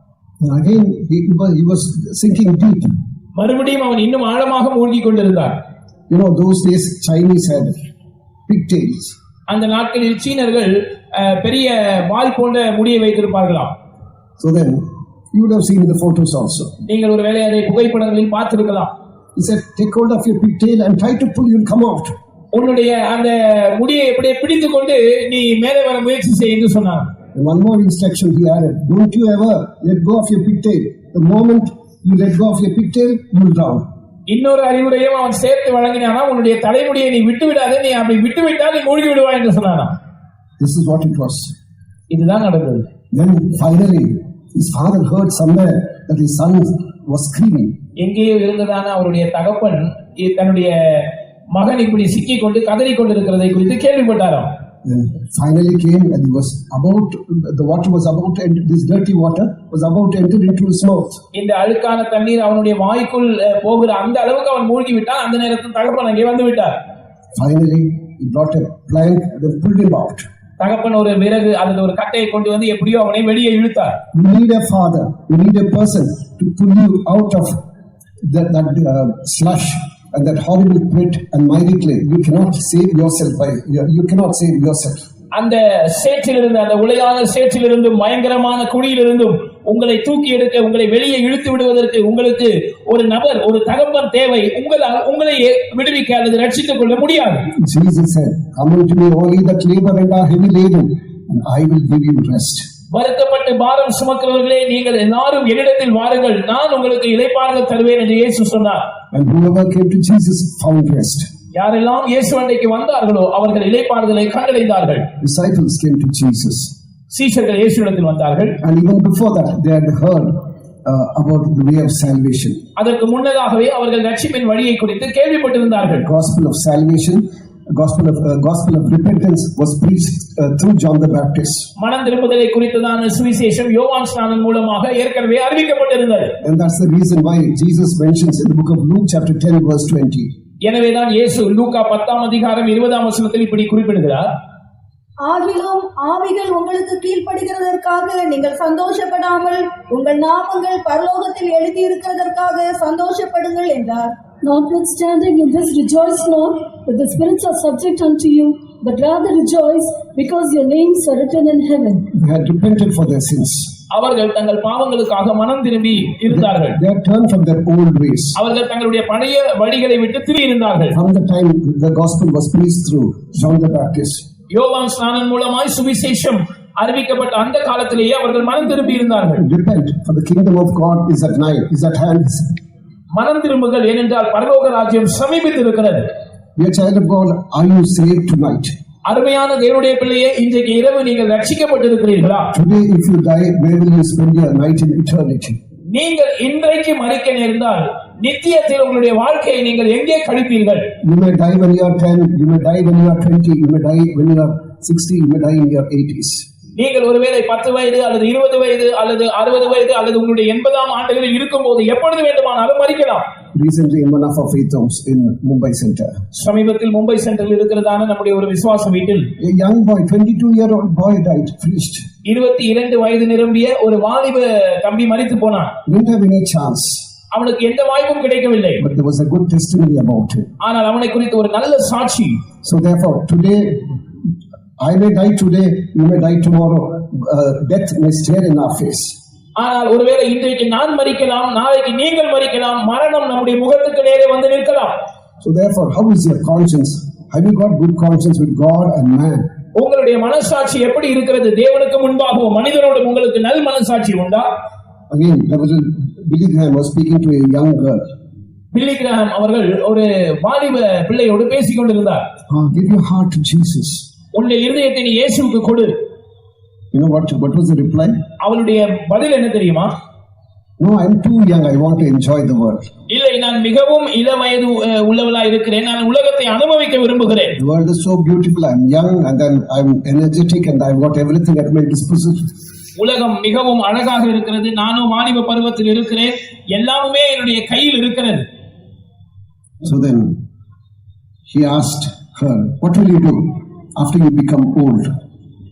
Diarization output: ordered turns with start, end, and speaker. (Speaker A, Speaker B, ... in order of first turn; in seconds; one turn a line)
Speaker A: 0.4-2.9
Speaker B: 3.4-5.5
Speaker A: 6.1-7.7
Speaker A: 8.5-9.1
Speaker B: 9.5-13.7
Speaker A: 14.4-16.8
Speaker B: 16.9-18.9
Speaker A: 19.4-22.1
Speaker B: 22.5-27.1
Speaker A: 27.4-33.8
Speaker B: 34.3-39.9
Speaker A: 40.6-41.5
Speaker B: 42.1-42.9
Speaker A: 43.1-47.8
Speaker B: 48.0-54.5
Speaker A: 54.9-61.2
Speaker B: 61.4-66.7
Speaker A: 67.4-70.3
Speaker B: 70.6-74.0
Speaker A: 74.1-77.6
Speaker A: 78.2-85.0
Speaker B: 85.3-97.5
Speaker A: 97.6-102.7
Speaker B: 102.9-108.8
Speaker A: 109.1-111.3
Speaker B: 111.5-115.1
Speaker A: 115.2-116.7
Speaker B: 117.1-118.6
Speaker A: 118.6-122.6
Speaker B: 122.8-126.1
Speaker A: 126.0-131.7
Speaker B: 131.8-136.3
Speaker A: 136.4-140.3
Speaker B: 140.7-144.2
Speaker C: 145.2-154.1
Speaker D: 154.4-162.0
Speaker A: 162.1-163.7
Speaker B: 163.9-166.8
Speaker A: 166.3-168.4
Speaker B: 168.4-170.9
Speaker A: 170.9-174.2
Speaker B: 174.5-179.4
Speaker A: 179.4-182.6
Speaker B: 183.1-186.1
Speaker A: 186.6-188.7
Speaker B: 189.1-192.5
Speaker A: 192.5-195.6
Speaker B: 195.9-200.9
Speaker A: 201.0-206.4
Speaker B: 206.8-213.2
Speaker A: 213.5-216.1
Speaker B: 216.3-219.3
Speaker A: 219.4-222.0
Speaker B: 222.3-225.7
Speaker A: 225.9-227.1
Speaker B: 227.3-228.8
Speaker A: 228.8-230.5
Speaker B: 230.6-232.4
Speaker A: 232.6-234.0
Speaker A: 234.8-239.2
Speaker B: 239.6-244.9
Speaker A: 245.4-249.5
Speaker B: 249.8-254.5
Speaker A: 255.1-258.1
Speaker B: 258.7-262.2
Speaker A: 262.5-264.1
Speaker B: 264.3-265.9
Speaker A: 266.9-268.1
Speaker B: 268.4-269.9
Speaker A: 270.8-272.8
Speaker B: 273.1-277.6
Speaker A: 277.6-282.5
Speaker B: 283.0-288.4
Speaker A: 289.8-290.4
Speaker A: 291.5-295.1